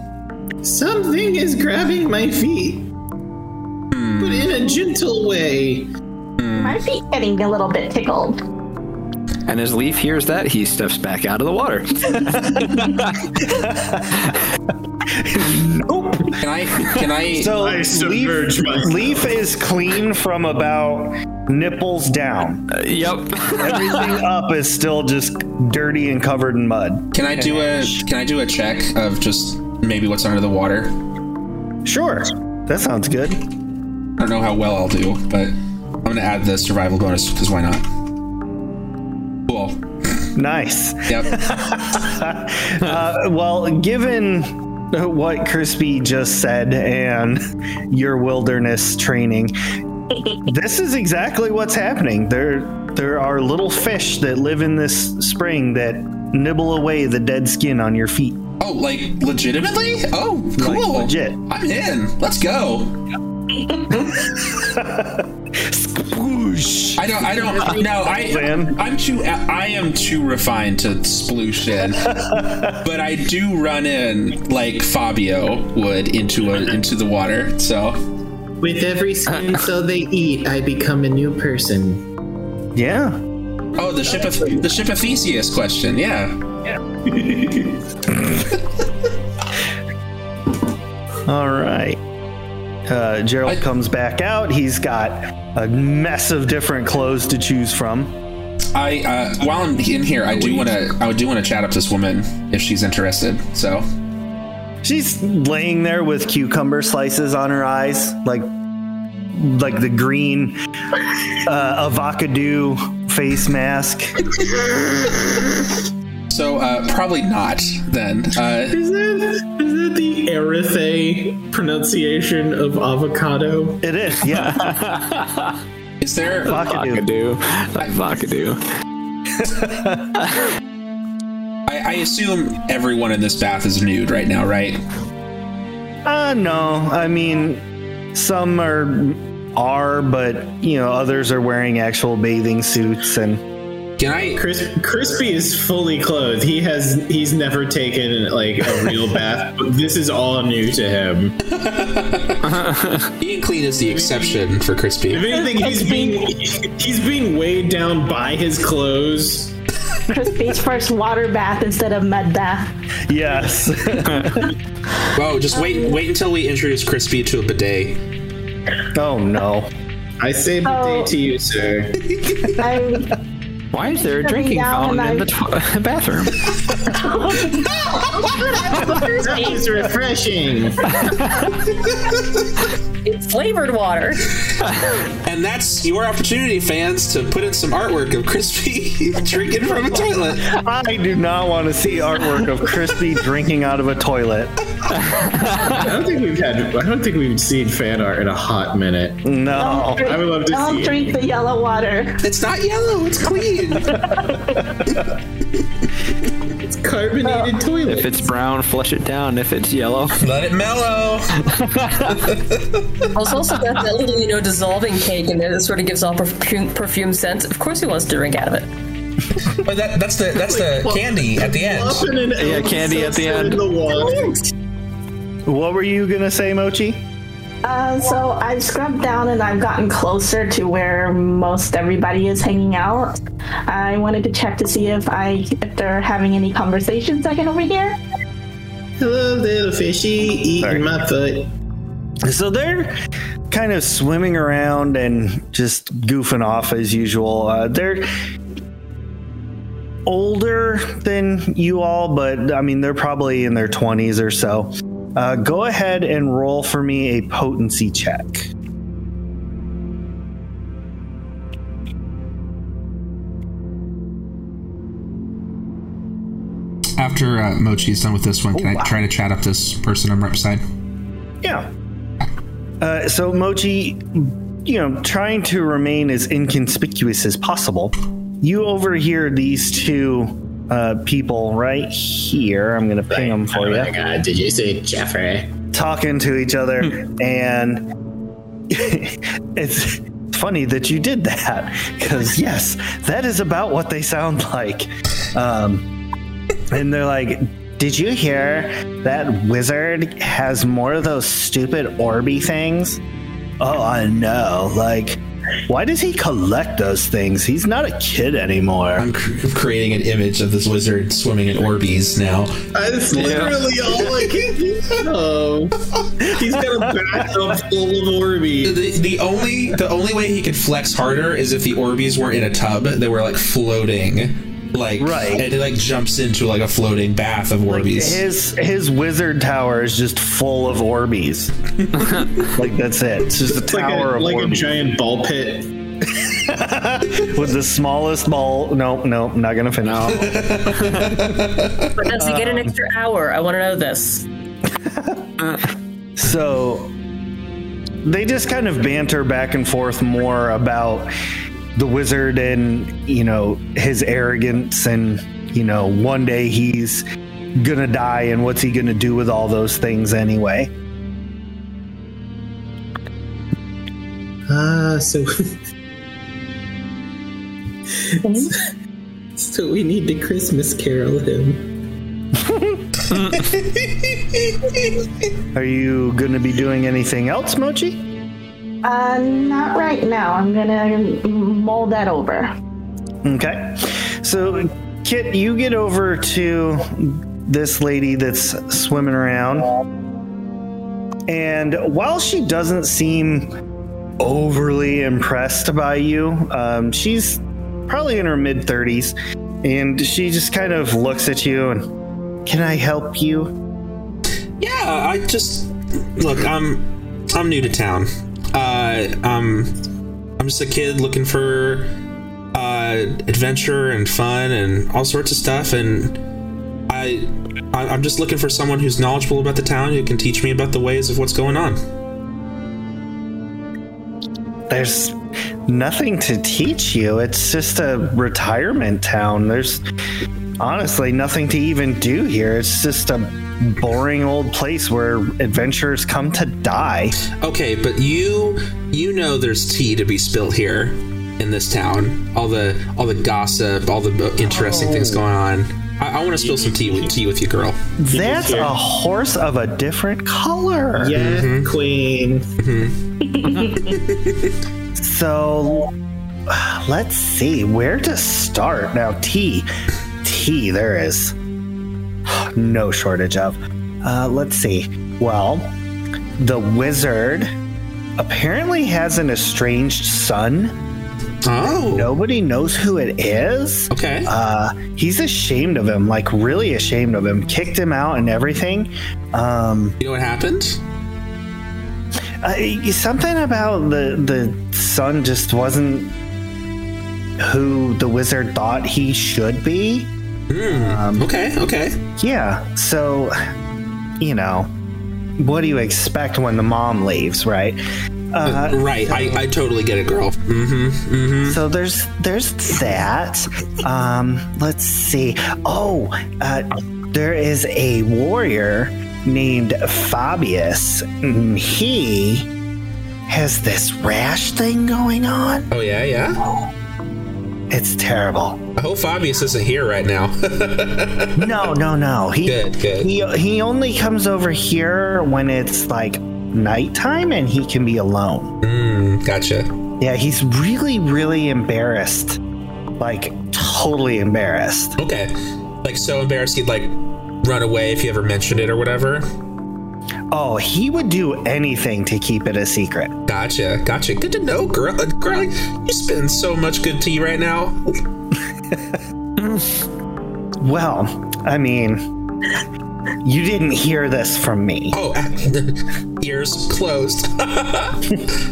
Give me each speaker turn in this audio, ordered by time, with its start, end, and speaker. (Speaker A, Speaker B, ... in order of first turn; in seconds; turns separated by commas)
Speaker A: 0.6-2.9, Speaker B: 3.9-4.6, Speaker A: 4.2-5.9, Speaker B: 6.4-6.8, Speaker C: 6.6-8.4, Speaker D: 9.5-13.4, Speaker E: 13.4-14.2, Speaker E: 15.1-16.4, Speaker B: 16.4-17.6, Speaker E: 17.3-22.7, Speaker A: 17.5-19.3, Speaker D: 22.7-24.1, Speaker E: 23.5-28.0, Speaker B: 27.1-30.9, Speaker E: 31.8-33.4, Speaker B: 34.2-37.8, Speaker B: 39.5-39.8, Speaker E: 40.3-49.5, Speaker B: 41.1-41.4, Speaker E: 50.4-58.4, Speaker B: 58.6-63.0, Speaker E: 60.6-61.4, Speaker E: 63.9-68.8, Speaker B: 67.0-78.0, Speaker E: 72.0-72.8, Speaker A: 78.6-82.0, Speaker E: 82.7-83.2, Speaker B: 83.8-86.4, Speaker A: 87.0-87.8, Speaker E: 91.2-92.0, Speaker E: 92.9-98.1, Speaker B: 98.7-103.8, Speaker E: 104.8-108.5, Speaker E: 109.3-110.6, Speaker E: 111.3-114.3, Speaker B: 116.3-118.8, Speaker A: 118.7-123.8, Speaker E: 123.8-124.7, Speaker D: 124.3-125.6, Speaker B: 126.0-126.6, Speaker E: 126.4-127.0, Speaker D: 126.5-128.6, Speaker E: 129.4-130.1, Speaker B: 131.7-134.8, Speaker E: 136.0-143.4, Speaker B: 144.0-144.4, Speaker A: 144.3-151.3, Speaker B: 151.5-152.5, Speaker D: 152.4-153.1, Speaker B: 153.2-155.3, Speaker A: 153.9-154.4, Speaker A: 155.1-159.6, Speaker C: 155.4-156.3, Speaker C: 160.1-162.7, Speaker E: 163.1-164.5, Speaker B: 165.1-168.0, Speaker C: 165.5-165.9, Speaker E: 168.9-169.7, Speaker A: 170.2-172.0, Speaker C: 170.6-171.1, Speaker B: 172.2-172.5, Speaker C: 172.5-173.2, Speaker D: 173.7-176.6, Speaker C: 173.9-175.3, Speaker C: 176.8-179.5, Speaker F: 178.7-179.6, Speaker A: 179.0-181.0, Speaker D: 181.0-181.4, Speaker B: 181.8-182.2, Speaker F: 183.0-184.3, Speaker D: 184.6-184.9, Speaker B: 185.2-190.5, Speaker E: 190.4-194.5, Speaker D: 195.1-195.8, Speaker A: 195.6-199.2, Speaker E: 199.2-200.2, Speaker C: 199.5-202.2, Speaker A: 200.0-201.2, Speaker B: 202.2-204.3, Speaker A: 206.6-208.3, Speaker C: 207.2-207.6, Speaker D: 207.9-210.2, Speaker B: 210.2-212.8, Speaker D: 211.5-212.1, Speaker F: 213.1-218.7, Speaker B: 219.5-222.1, Speaker A: 220.4-224.3, Speaker D: 222.4-223.6, Speaker F: 223.9-224.4, Speaker E: 225.4-227.0, Speaker C: 227.6-238.0, Speaker A: 239.0-241.5, Speaker E: 240.6-240.9, Speaker E: 242.2-242.9, Speaker E: 243.5-248.1, Speaker E: 250.1-258.5, Speaker B: 267.0-270.6, Speaker E: 268.5-269.0, Speaker E: 271.4-271.7, Speaker E: 272.8-283.9, Speaker A: 283.1-285.5, Speaker E: 285.7-287.8, Speaker E: 288.7-295.9, Speaker E: 296.7-303.0, Speaker E: 303.6-309.1, Speaker B: 309.0-312.6, Speaker A: 312.7-318.8, Speaker D: 313.1-313.6, Speaker B: 318.6-328.2, Speaker E: 325.0-325.5, Speaker E: 327.7-331.5, Speaker E: 332.5-334.8, Speaker A: 333.5-335.7, Speaker E: 336.1-340.4, Speaker B: 340.1-341.9, Speaker F: 341.9-344.3, Speaker E: 342.2-342.7, Speaker E: 344.8-345.3, Speaker E: 346.2-346.9, Speaker E: 348.0-351.1, Speaker E: 351.7-357.0, Speaker E: 357.6-360.7, Speaker A: 364.5-365.6, Speaker A: 367.9-368.6, Speaker C: 368.2-368.5, Speaker A: 369.4-371.7, Speaker E: 372.3-372.9, Speaker D: 373.1-373.4, Speaker B: 373.3-374.0, Speaker E: 375.5-378.0, Speaker C: 378.8-382.5, Speaker E: 383.2-389.7, Speaker E: 391.3-393.5, Speaker E: 394.2-401.9, Speaker E: 402.4-403.5, Speaker B: 404.6-409.7, Speaker B: 410.4-411.9, Speaker B: 412.5-416.2, Speaker B: 416.9-421.8, Speaker E: 424.7-425.1, Speaker E: 425.7-429.8, Speaker E: 430.6-437.1, Speaker B: 437.4-447.8, Speaker E: 444.4-445.2, Speaker A: 446.4-447.1, Speaker E: 448.0-451.1, Speaker A: 448.1-448.7, Speaker A: 450.9-452.5, Speaker B: 451.1-451.7, Speaker B: 452.6-453.0, Speaker C: 453.3-454.0, Speaker B: 453.8-454.5, Speaker E: 454.9-455.9, Speaker E: 456.5-459.7, Speaker E: 460.2-461.3, Speaker E: 462.2-465.7, Speaker E: 466.4-467.5, Speaker E: 468.2-470.7, Speaker B: 471.4-472.1, Speaker E: 471.6-479.9, Speaker B: 473.9-474.3, Speaker B: 480.0-480.8, Speaker E: 482.4-486.1, Speaker E: 487.4-490.1, Speaker B: 490.5-492.0, Speaker E: 490.7-491.3, Speaker E: 492.2-493.4, Speaker E: 494.2-494.7, Speaker E: 495.4-497.8, Speaker E: 498.3-499.4, Speaker B: 498.4-501.6, Speaker E: 501.4-512.5, Speaker E: 513.3-515.7, Speaker B: 515.7-516.5, Speaker E: 517.7-518.6, Speaker B: 518.8-521.5, Speaker E: 521.4-528.5, Speaker B: 522.4-523.1, Speaker B: 528.6-529.7, Speaker E: 530.0-532.4, Speaker E: 533.0-535.0, Speaker B: 535.0-535.3, Speaker B: 535.8-539.3, Speaker E: 540.3-543.1, Speaker B: 543.3-548.0, Speaker D: 549.4-549.6, Speaker E: 550.6-552.0, Speaker E: 553.2-555.0, Speaker B: 554.9-558.2